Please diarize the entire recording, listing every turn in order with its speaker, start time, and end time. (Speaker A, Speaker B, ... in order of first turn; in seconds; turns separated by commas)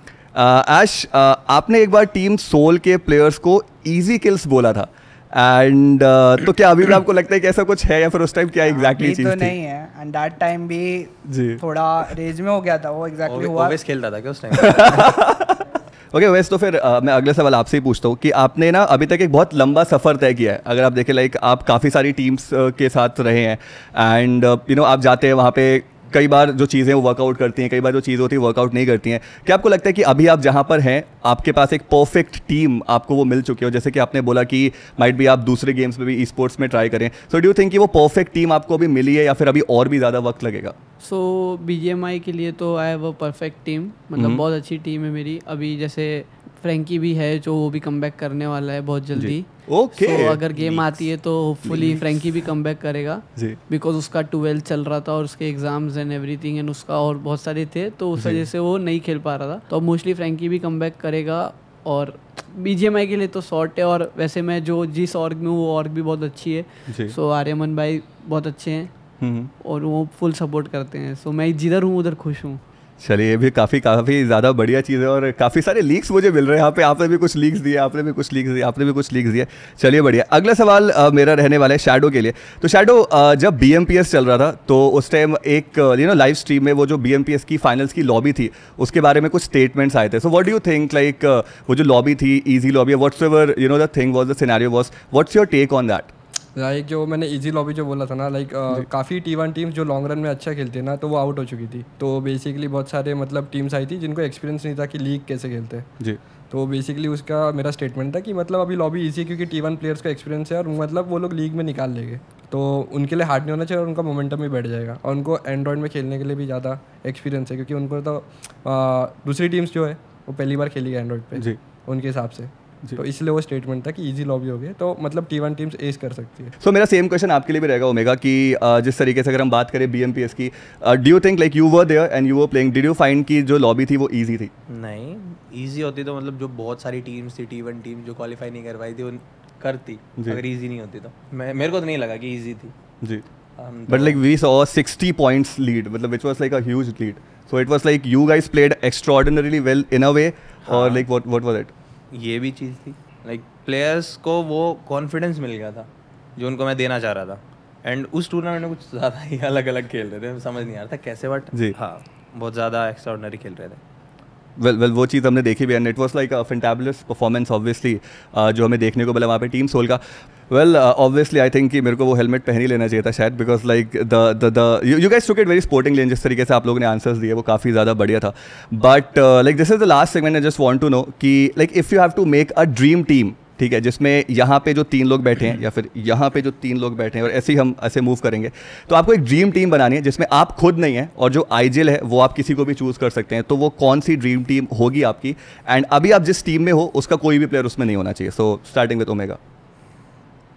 Speaker A: 0.3-9.5, Speaker B: 8.7-13.8, Speaker A: 11.2-11.6, Speaker C: 13.2-15.0, Speaker A: 14.5-40.7, Speaker D: 41.0-68.9, Speaker A: 44.1-44.4, Speaker A: 49.1-51.0, Speaker A: 51.6-52.4, Speaker A: 58.1-58.4, Speaker A: 66.9-67.1, Speaker A: 69.2-69.5, Speaker D: 69.6-72.6, Speaker A: 73.0-96.1, Speaker E: 96.5-105.9, Speaker E: 106.5-126.5, Speaker A: 126.6-134.5, Speaker C: 134.7-142.7, Speaker C: 143.6-144.2, Speaker A: 143.9-151.7, Speaker C: 150.6-151.1, Speaker C: 152.1-163.8, Speaker A: 164.6-199.4